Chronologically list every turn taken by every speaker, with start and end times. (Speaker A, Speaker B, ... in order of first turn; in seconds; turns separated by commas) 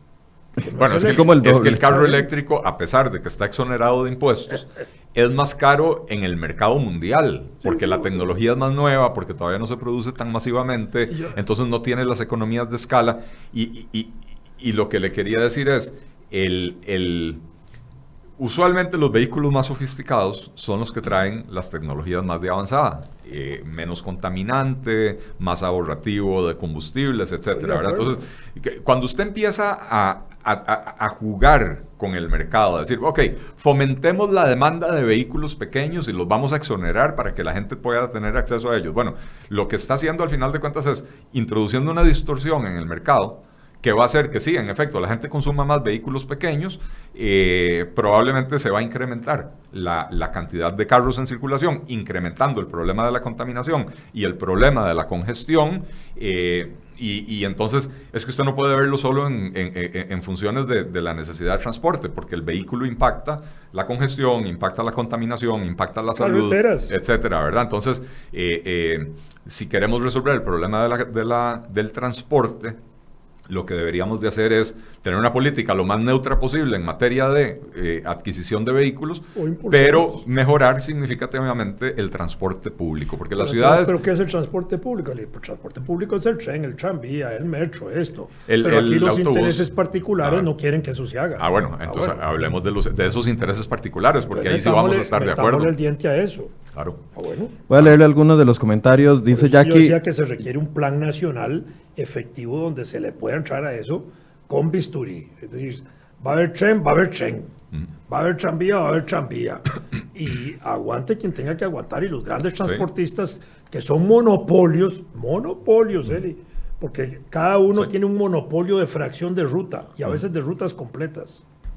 Speaker A: 0.6-2.2, Speaker B: 0.8-17.4, Speaker C: 1.0-2.2, Speaker A: 7.6-8.3, Speaker A: 11.1-11.4, Speaker B: 18.4-72.8, Speaker A: 27.5-28.2, Speaker A: 66.2-67.0, Speaker B: 73.5-84.0, Speaker A: 79.3-80.2, Speaker A: 83.4-92.2, Speaker B: 88.5-90.5, Speaker B: 91.4-95.7, Speaker A: 94.2-96.5, Speaker B: 96.7-97.0, Speaker A: 97.1-97.6, Speaker C: 97.7-100.0, Speaker A: 99.3-107.5, Speaker A: 108.1-121.4